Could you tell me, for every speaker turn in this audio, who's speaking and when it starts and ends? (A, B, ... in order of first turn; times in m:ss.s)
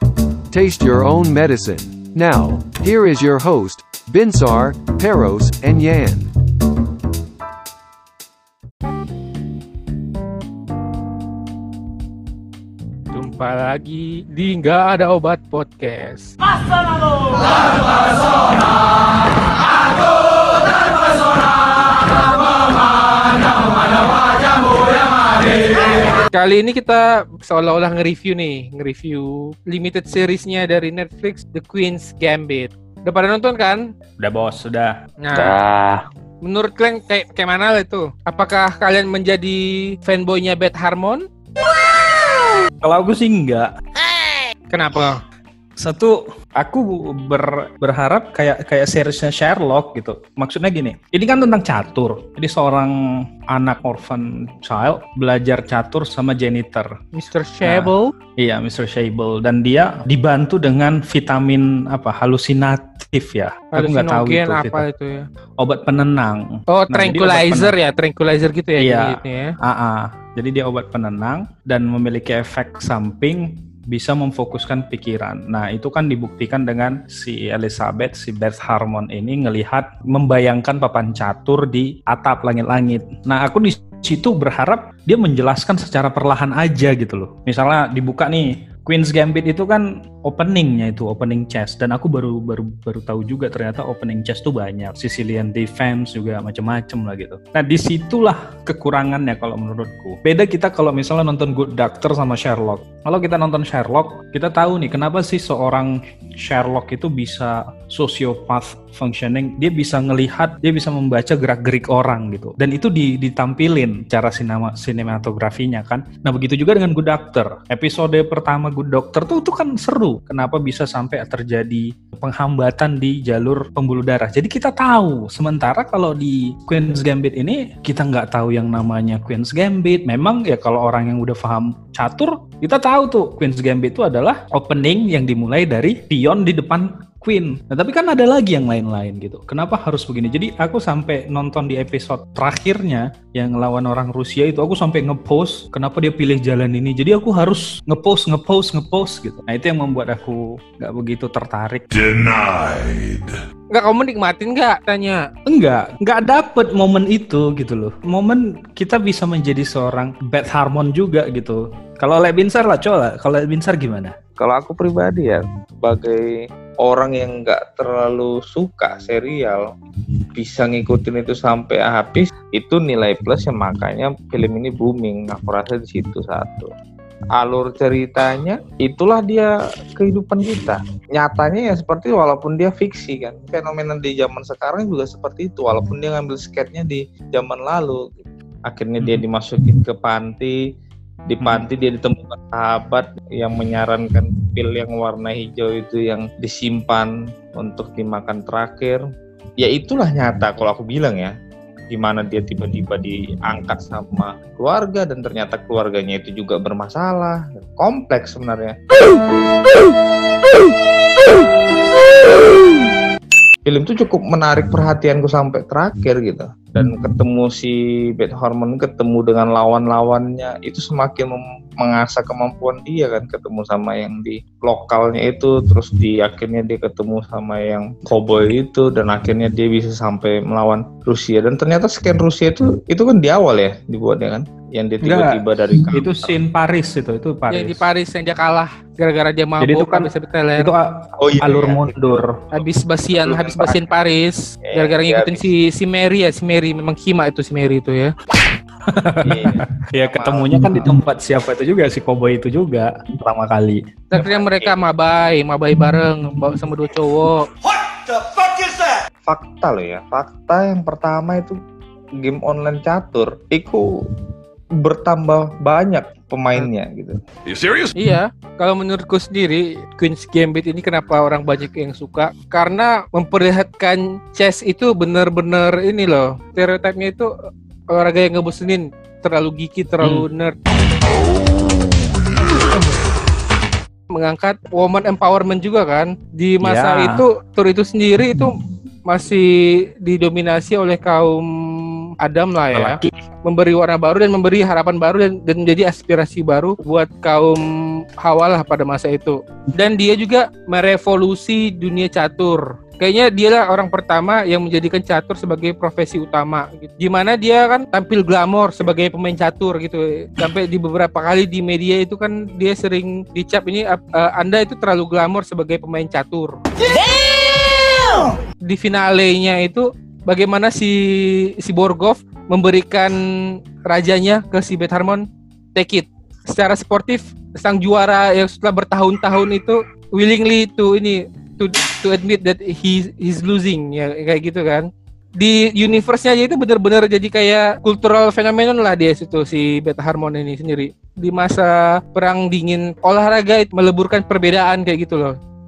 0:00.5-0:06.3 A
0:13.1-0:16.3 B
0:26.3-0:33.8 B
0:34.2-0:36.0 C
0:35.2-0:35.6 B
0:36.4-0:41.2 B
0:42.8-0:43.7 C
0:44.7-0:45.2 B
0:45.8-0:52.9 C
0:53.5-0:56.9 C
0:57.1-0:58.0 B
0:57.6-1:04.8 C
1:03.7-1:05.2 B
1:05.6-1:07.8 C
1:06.7-1:09.5 B
1:08.8-2:31.8 C
2:31.9-2:33.4 D
2:33.7-2:35.2 B
2:35.5-2:44.1 C
2:44.4-2:46.2 E
2:46.8-2:49.6 E
2:50.3-2:56.7 E
2:57.4-3:10.6 E
3:11.3-3:19.0 E
3:11.4-3:11.6 C
3:19.6-3:21.3 E
3:21.9-3:28.8 E
3:33.6-3:56.3 E
3:55.0-3:55.4 C
3:55.9-3:57.8 C
3:57.5-4:00.7 B
3:59.6-4:02.4 C
4:01.2-4:02.2 E
4:02.5-4:08.1 B
4:03.1-4:03.8 E
4:04.6-4:05.5 E
4:08.9-4:13.8 C
4:09.2-4:10.8 E
4:14.1-4:17.5 B
4:14.2-4:14.7 E
4:19.2-4:21.6 E
4:22.2-4:23.9 E
4:24.8-4:27.2 E
4:27.5-4:28.0 D
4:28.0-4:37.3 B
4:37.9-4:40.6 B
4:40.0-4:40.3 C
4:44.1-4:48.5 B
4:46.6-4:47.2 C
4:49.1-4:49.5 B
4:50.0-4:57.6 B
4:52.7-4:53.1 C
4:58.2-5:16.6 B
5:18.6-5:21.0 B
5:21.6-5:23.2 B
5:23.9-5:25.2 B
5:25.7-5:34.9 B
5:35.4-5:45.3 B